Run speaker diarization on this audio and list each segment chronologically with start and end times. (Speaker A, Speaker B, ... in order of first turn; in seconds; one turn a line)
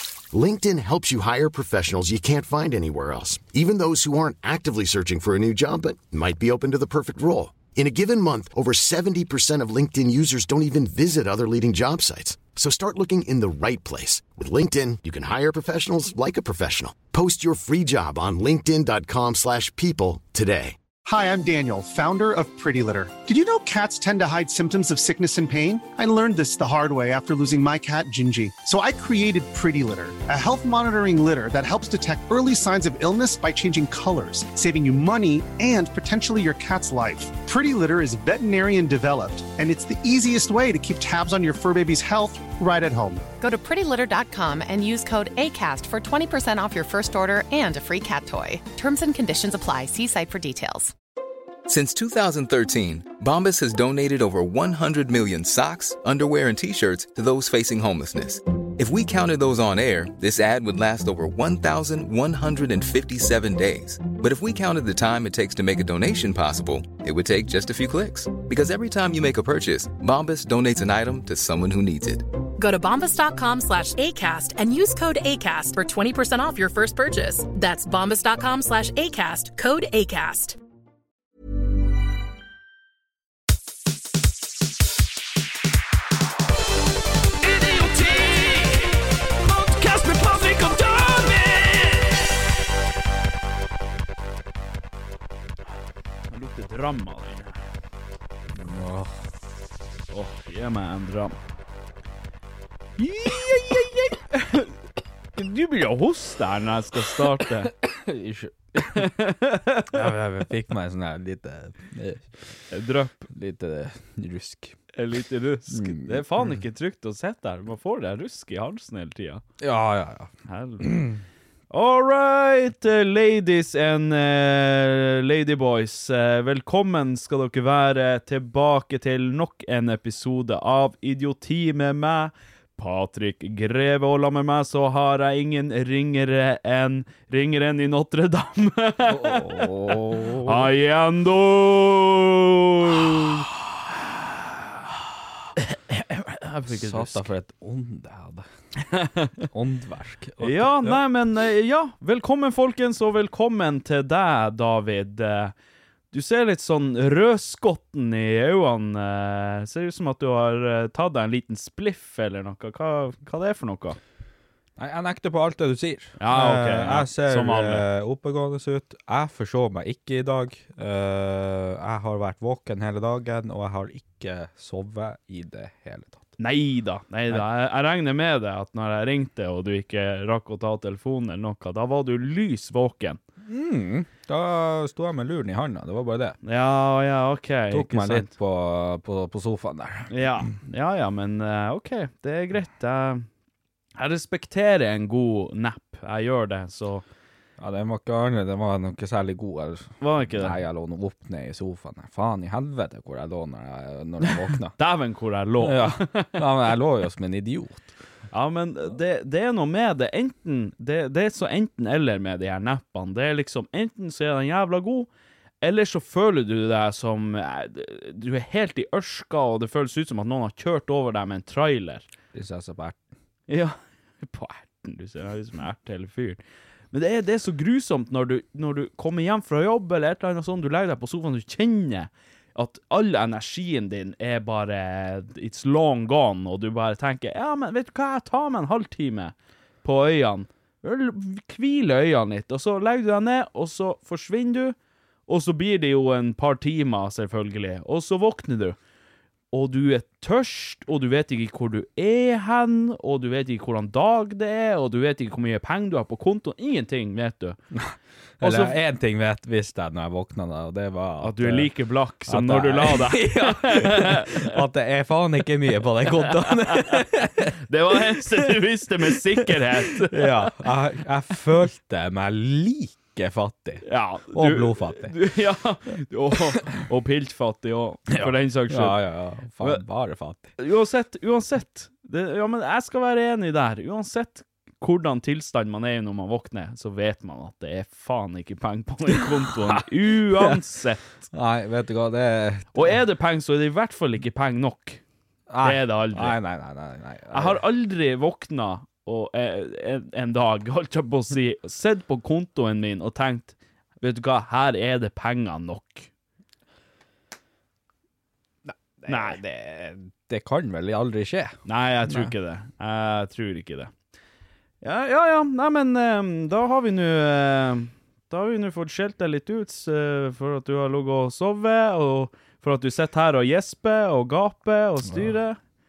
Speaker A: 0.3-20.8
Speaker B: 21.1-43.2
Speaker C: 43.4-50.9
Speaker D: 51.7-72.3
Speaker C: 72.6-80.6
Speaker E: 87.4-92.1
Speaker E: 96.3-97.5
Speaker F: 98.5-99.2
Speaker E: 100.1-101.3
Speaker F: 103.0-104.1
Speaker E: 104.4-104.7
Speaker E: 105.4-107.7
Speaker F: 107.6-109.1
Speaker E: 108.8-110.0
Speaker F: 109.9-112.3
Speaker E: 112.7-113.3
Speaker F: 113.3-114.8
Speaker E: 114.9-119.4
Speaker F: 115.7-116.6
Speaker F: 119.6-121.2
Speaker E: 120.5-121.1
Speaker E: 121.7-143.5
Speaker F: 139.1-140.7
Speaker E: 145.6-147.3
Speaker F: 146.7-148.4
Speaker E: 148.9-149.3
Speaker F: 149.4-151.0
Speaker E: 150.4-155.5
Speaker E: 156.1-164.0
Speaker F: 164.8-176.3
Speaker E: 166.2-167.8
Speaker E: 176.4-183.2
Speaker F: 183.5-186.4
Speaker E: 186.4-188.3
Speaker F: 187.7-190.1
Speaker E: 190.1-193.3
Speaker E: 194.0-197.1
Speaker F: 197.6-204.8
Speaker E: 200.0-200.6
Speaker E: 204.5-206.4
Speaker F: 205.6-207.9
Speaker E: 208.3-215.1
Speaker E: 215.6-222.1
Speaker F: 222.3-223.0
Speaker E: 223.5-226.4
Speaker E: 226.9-244.8
Speaker E: 245.3-248.8
Speaker E: 249.5-257.6
Speaker F: 257.7-261.7
Speaker E: 258.4-258.8
Speaker E: 261.2-264.6
Speaker F: 262.3-268.5
Speaker E: 266.1-267.0
Speaker E: 267.6-270.5
Speaker F: 269.1-275.1
Speaker E: 273.8-279.0
Speaker F: 278.1-280.5
Speaker E: 280.6-291.1
Speaker F: 289.3-290.6
Speaker F: 291.3-293.0
Speaker E: 292.7-295.0
Speaker F: 295.5-297.6
Speaker E: 295.6-296.4
Speaker E: 297.3-306.1
Speaker F: 308.7-312.3
Speaker E: 309.1-309.4
Speaker E: 311.7-313.9
Speaker E: 314.8-325.6
Speaker F: 325.0-325.4